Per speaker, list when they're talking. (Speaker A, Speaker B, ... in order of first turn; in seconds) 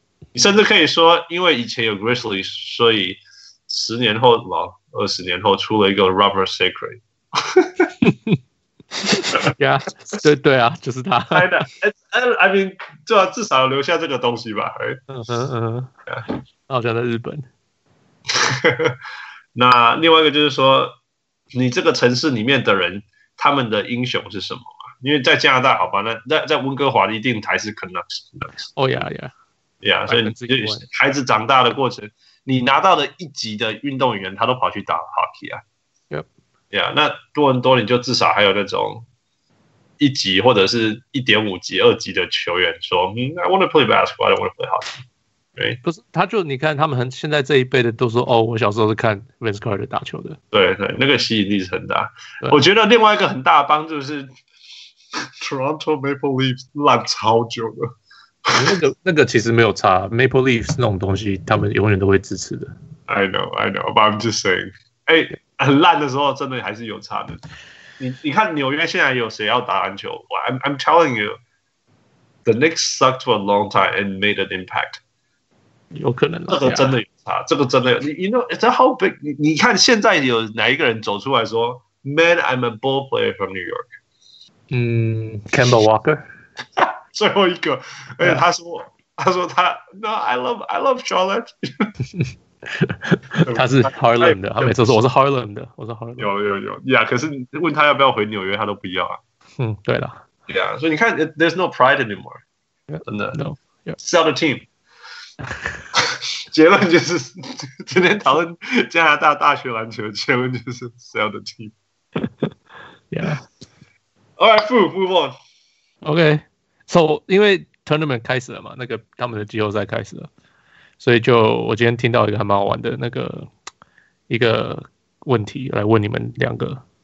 Speaker A: 0.3-7.9, 11.3-15.0, 18.3-18.9, 19.5-20.9, 21.5-28.6, 29.8-35.6, 36.7-39.0, 40.0-45.0, 50.5-54.3, 55.4-57.9, 58.5-58.7, 63.1-67.4, 68.0-71.4, 72.5-75.0, 76.5-83.9, 86.8-91.9, 93.5-95.0, 96.2-99.2, 100.5-102.4, 103.0-103.4, 104.0-104.7, 106.0-111.7, 114.4-115.3
Speaker B: 8.0-8.4, 9.1-11.5, 15.1-15.9, 16.7-17.5, 28.7-29.3, 30.1-30.8, 45.8-50.4, 58.5-62.7, 75.9-76.9, 84.7-86.2, 92.2-96.3, 99.6-100.2, 102.9-104.0, 112.2-112.5, 113.1-113.4, 116.0-120.3, 121.0-123.5, 124.3-126.8